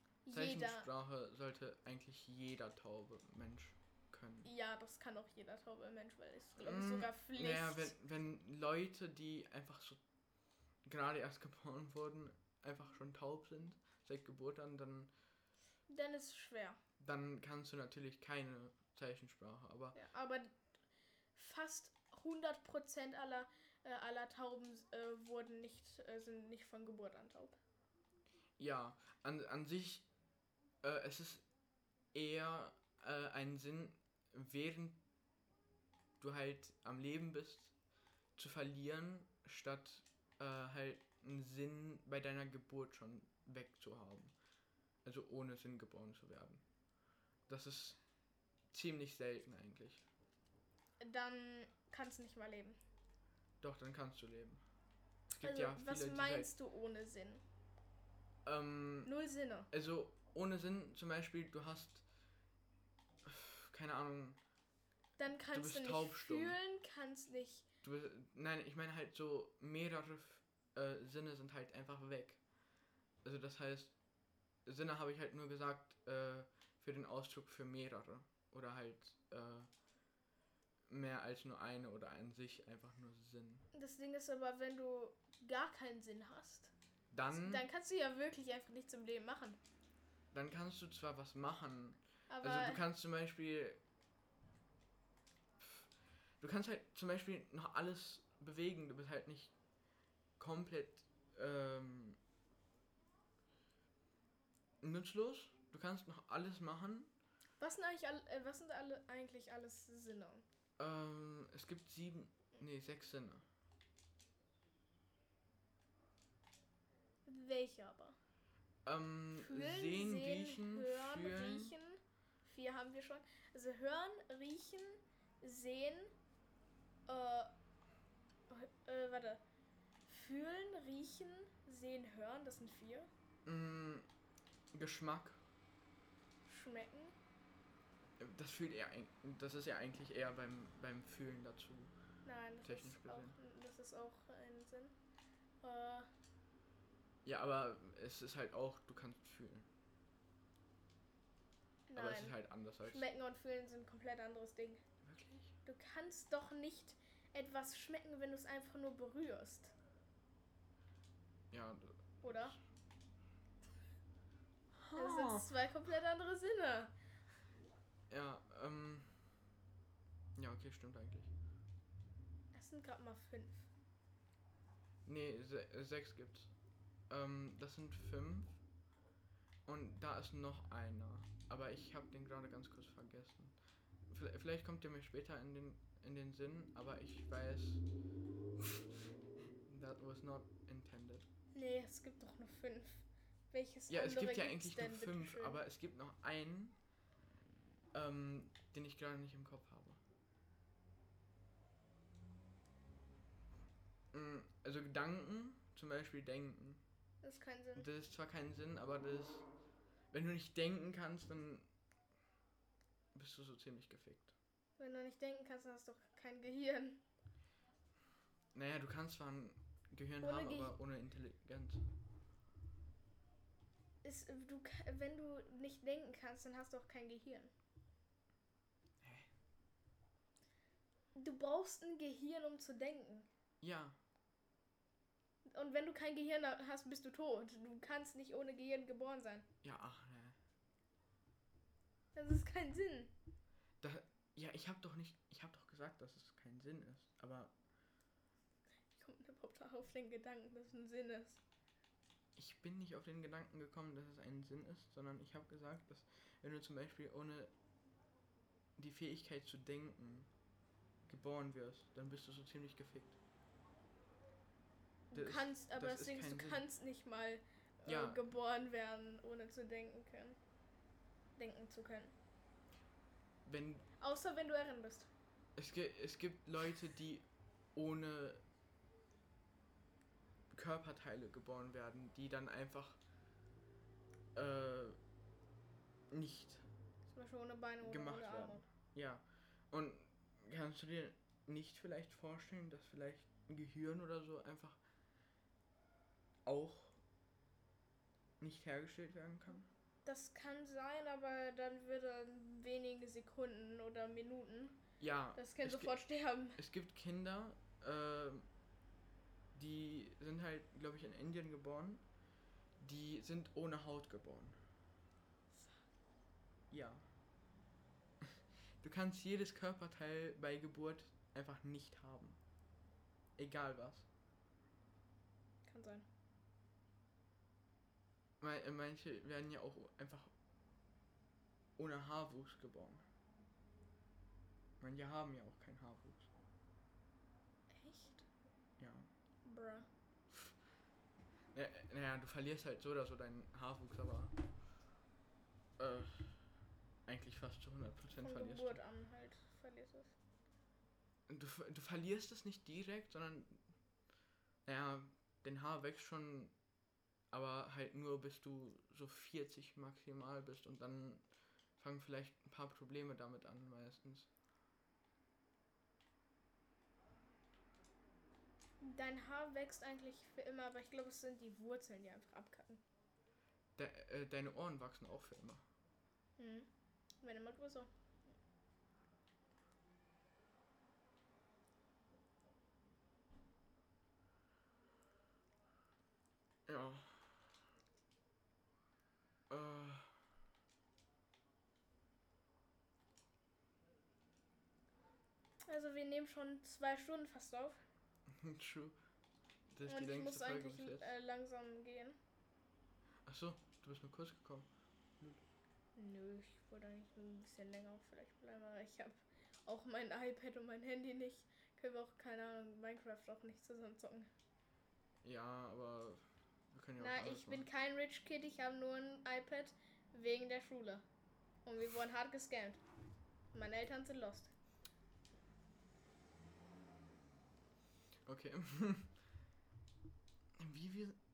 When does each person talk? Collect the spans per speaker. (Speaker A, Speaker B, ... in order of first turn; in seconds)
Speaker A: 0.2-0.9, 4.5-7.9, 15.9-16.8, 19.9-20.6, 21.4-27.6, 51.0-52.8, 55.4-57.4, 59.0-59.7, 65.2-67.7, 83.7-86.7, 87.3-89.6, 92.3-92.8, 107.6-110.4, 117.3-118.2, 119.4-126.1, 127.1-127.5, 128.5-129.4, 130.1-133.1, 136.5-137.2, 142.2-144.9, 145.6-146.1, 151.9-154.8, 155.7-159.7, 162.2-162.6, 164.9-166.9, 172.5-173.7, 191.5-195.6, 207.2-207.9, 214.8-217.0, 220.2-220.7, 224.0-227.5, 231.2-233.3, 235.5-239.5, 242.2-243.1, 248.9-251.4, 265.1-270.4, 271.4-272.1, 274.0-275.1, 287.1-288.6, 300.1-304.8, 305.4-306.6, 325.6-326.1, 337.7-338.2, 339.4-339.9, 348.2-350.1, 368.8-372.8, 376.4-376.7, 377.2-377.9, 395.7-397.8, 399.9-402.2, 406.0-414.3, 417.0-421.0, 421.6-422.8, 423.5-424.5
Speaker B: 0.3-4.5, 6.6-10.0, 10.8-15.1, 17.0-20.0, 28.6-30.0, 30.8-31.4, 32.1-35.0, 36.2-37.7, 38.4-44.3, 45.0-46.6, 47.5-48.0, 48.7-50.0, 53.6-54.6, 55.3-56.5, 58.5-59.1, 59.7-62.0, 63.2-64.4, 65.5-66.6, 67.8-72.4, 73.2-73.9, 74.7-79.7, 80.9-83.7, 87.1-87.6, 90.3-93.8, 96.4-99.5, 100.4-102.2, 104.8-107.1, 110.8-113.4, 118.8-121.7, 133.5-134.1, 134.7-135.4, 138.2-141.9, 142.6-143.4, 147.2-149.7, 152.0-153.1, 155.0-155.5, 161.5-162.6, 164.8-165.5, 168.1-169.2, 170.4-171.3, 175.1-176.5, 177.1-178.6, 179.7-183.6, 184.1-187.8, 189.7-191.3, 193.9-196.8, 197.9-200.0, 204.1-206.8, 207.8-209.5, 210.1-211.7, 213.1-214.3, 218.5-221.8, 229.0-229.3, 233.6-234.0, 239.6-240.4, 243.8-247.5, 252.4-257.5, 258.8-260.3, 261.1-263.2, 265.1-266.6, 267.9-268.3, 273.4-273.9, 275.6-278.4, 280.5-283.0, 284.4-285.0, 286.1-286.6, 287.8-294.8, 296.5-297.0, 298.4-299.7, 305.0-306.0, 306.6-308.5, 309.6-312.0, 312.8-314.6, 316.7-317.1, 318.2-322.4, 323.4-324.1, 328.4-330.3, 331.8-333.0, 334.8-336.3, 338.8-339.1, 341.5-344.3, 345.8-346.5, 347.1-348.8, 351.3-353.6, 354.7-356.5, 357.3-364.3, 373.8-375.6, 386.7-387.3, 389.5-390.1, 398.3-398.9, 399.7-401.1, 403.3-404.7, 415.2-417.7, 428.2-429.1, 430.6-431.2